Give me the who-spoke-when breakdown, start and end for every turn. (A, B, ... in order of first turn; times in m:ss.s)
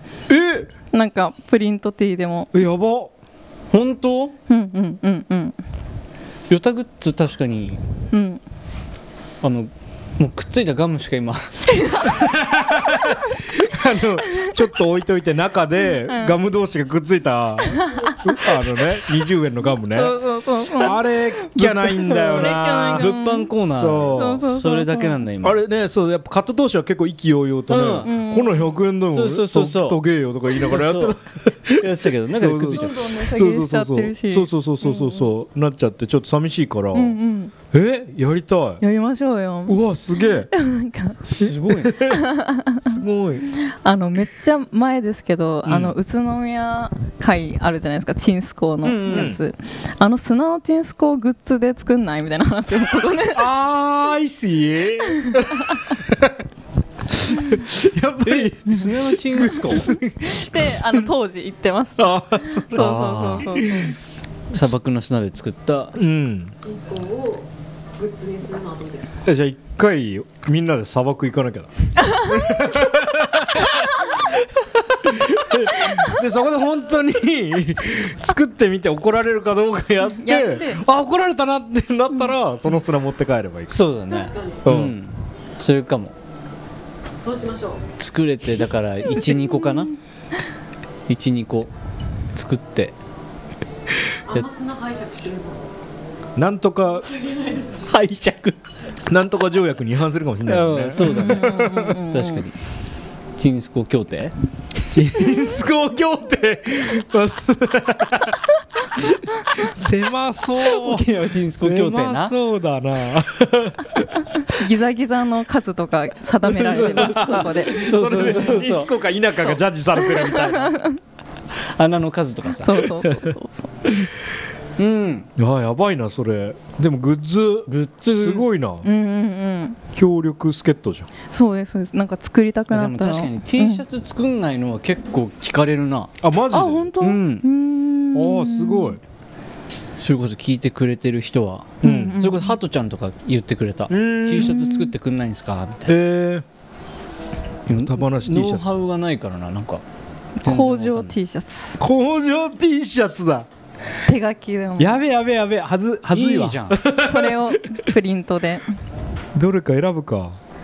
0:00.3-0:00.7 A
0:00.9-0:02.5 B
0:02.5-0:03.1 A
0:03.7-0:04.4 C
0:04.5-0:05.6 B
0:06.5-0:07.8 C
0:08.1-0:08.4 B
0:09.4-0:11.7 C
0:11.7-0:12.1 B
0:12.1-0:20.2 A
0:16.1-0:16.4 B
0:17.7-0:18.2 B
0:19.9-0:23.5 B
0:20.7-0:24.4 A
0:22.2-0:25.6 C
0:24.1-0:25.2 B
0:25.4-0:37.2 A
0:27.7-0:28.1 C
0:28.0-0:28.8 B
0:29.1-0:31.2 C
0:31.8-0:33.1 C
0:32.6-0:35.3 B
0:36.9-0:37.5 B
0:37.7-0:38.8 A
0:38.8-0:41.2 B
0:39.7-0:40.5 A
0:41.2-0:42.0 C
0:41.4-0:42.2 A
0:42.0-0:43.0 B
0:42.8-0:43.5 A
0:43.5-0:53.5 B
0:45.7-0:45.9 A
0:48.8-0:49.4 C
0:49.1-0:49.4 A
0:53.3-0:56.4 A
0:55.2-0:55.8 B
0:57.1-1:01.0 A
0:58.2-1:00.0 C
0:59.5-1:04.0 B
1:02.0-1:03.9 A
1:02.8-1:03.6 C
1:04.5-1:06.0 C
1:06.0-1:06.5 A
1:06.6-1:09.1 D
1:09.2-1:14.2 A
1:15.0-1:23.8 A
1:20.2-1:20.8 B
1:23.7-1:26.2 C
1:24.1-1:24.6 D
1:24.6-1:25.0 A
1:27.2-1:27.8 D
1:28.0-1:29.9 C
1:31.1-1:31.7 C
1:32.3-1:32.9 C
1:34.3-1:35.7 D
1:36.4-1:37.1 A
1:37.1-1:37.9 D
1:37.8-1:38.6 C
1:39.1-1:41.9 A
1:40.5-1:42.6 C
1:41.1-1:42.4 B
1:43.4-1:44.3 C
1:44.9-1:48.4 A
1:49.5-1:54.1 A
1:50.7-1:52.4 C
1:54.4-1:58.4 B
1:56.5-2:00.8 A
1:56.7-1:58.9 C
2:00.0-2:01.0 B
2:01.7-2:02.9 C
2:02.6-2:03.7 B
2:04.8-2:05.3 C
2:05.4-2:08.9 A
2:07.7-2:08.5 C
2:08.8-2:09.8 B
2:09.9-2:11.1 A
2:11.3-2:13.8 B
2:12.7-2:16.1 C
2:16.2-2:16.9 A
2:16.5-2:19.0 B
2:17.0-2:17.4 C
2:18.1-2:19.0 A
2:20.0-2:26.0 C
2:21.8-2:22.6 B
2:21.8-2:22.2 A
2:23.9-2:24.6 A
2:24.4-2:24.9 B
2:25.9-2:26.4 A
2:27.7-2:29.8 C
2:27.8-2:28.8 A
2:30.4-2:31.8 B
2:30.4-2:31.2 C
2:31.8-2:33.5 A
2:34.0-2:35.0 B
2:34.8-2:37.8 A
2:36.1-2:36.8 C
2:37.0-2:38.7 B
2:39.4-2:40.4 A